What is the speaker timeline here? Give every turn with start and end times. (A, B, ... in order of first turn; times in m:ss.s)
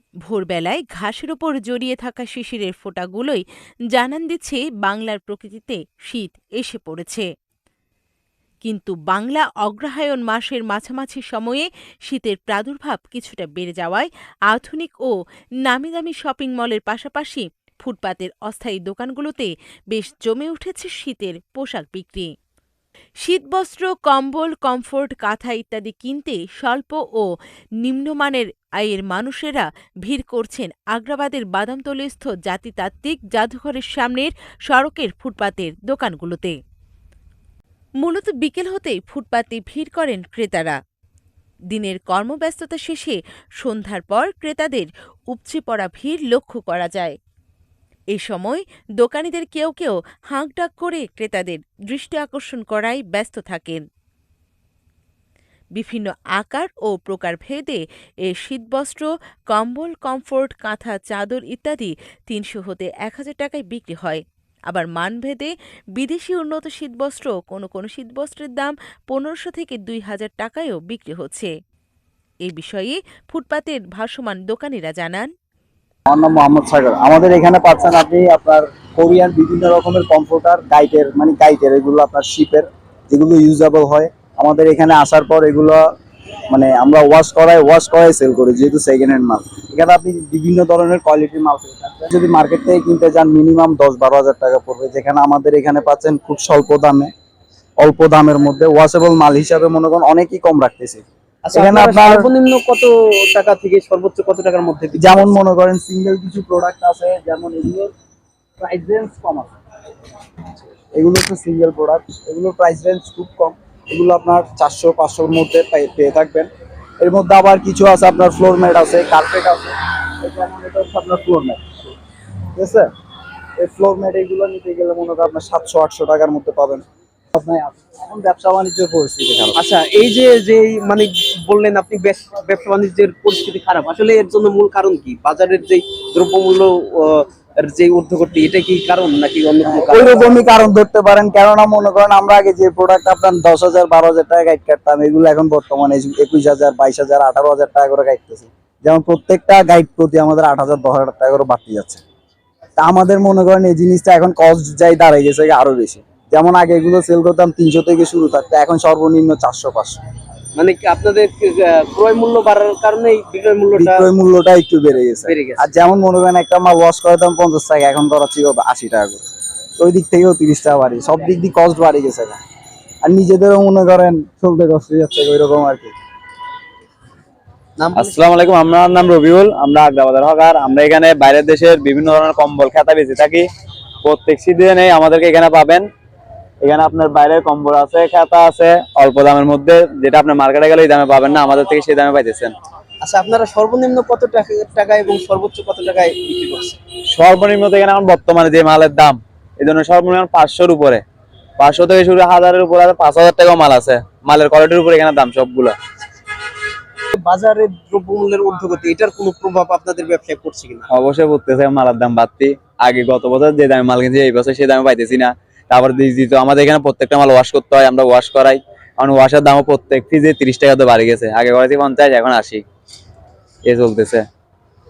0:00.3-0:03.4 A
0:03.9-0:07.3 A
0:08.6-0:15.1 A
0:15.6-0:22.3 A
0:23.2-0:27.3 A
0:27.8-0:36.6 A
0:38.0-0:40.8 A
0:41.7-0:47.2 A
0:48.1-0:53.8 A
0:55.8-1:11.5 A
1:12.4-1:15.3 A
1:16.1-1:25.8 B
1:26.5-1:37.1 B
1:37.8-1:42.3 B
1:41.4-1:45.4 C
1:45.0-1:47.9 B
1:48.6-1:49.5 B
1:51.0-1:56.5 B
1:57.0-2:01.7 B
2:02.6-2:02.9 B
2:03.6-2:09.6 B
2:09.6-2:20.4 C
2:19.7-2:32.0 B
2:32.8-2:40.0 B
2:40.6-2:44.1 C
2:43.8-2:49.2 B
2:45.2-2:45.6 C
2:49.8-2:52.4 B
2:53.0-2:56.0 B
2:57.8-2:58.3 C
2:58.0-3:03.4 D
3:04.0-3:05.9 D
3:06.6-3:12.5 D
3:13.0-3:16.8 C
3:17.1-3:21.0 D
3:21.6-3:25.8 D
3:27.1-3:30.9 C
3:30.9-3:42.6 D
3:43.7-3:44.3 D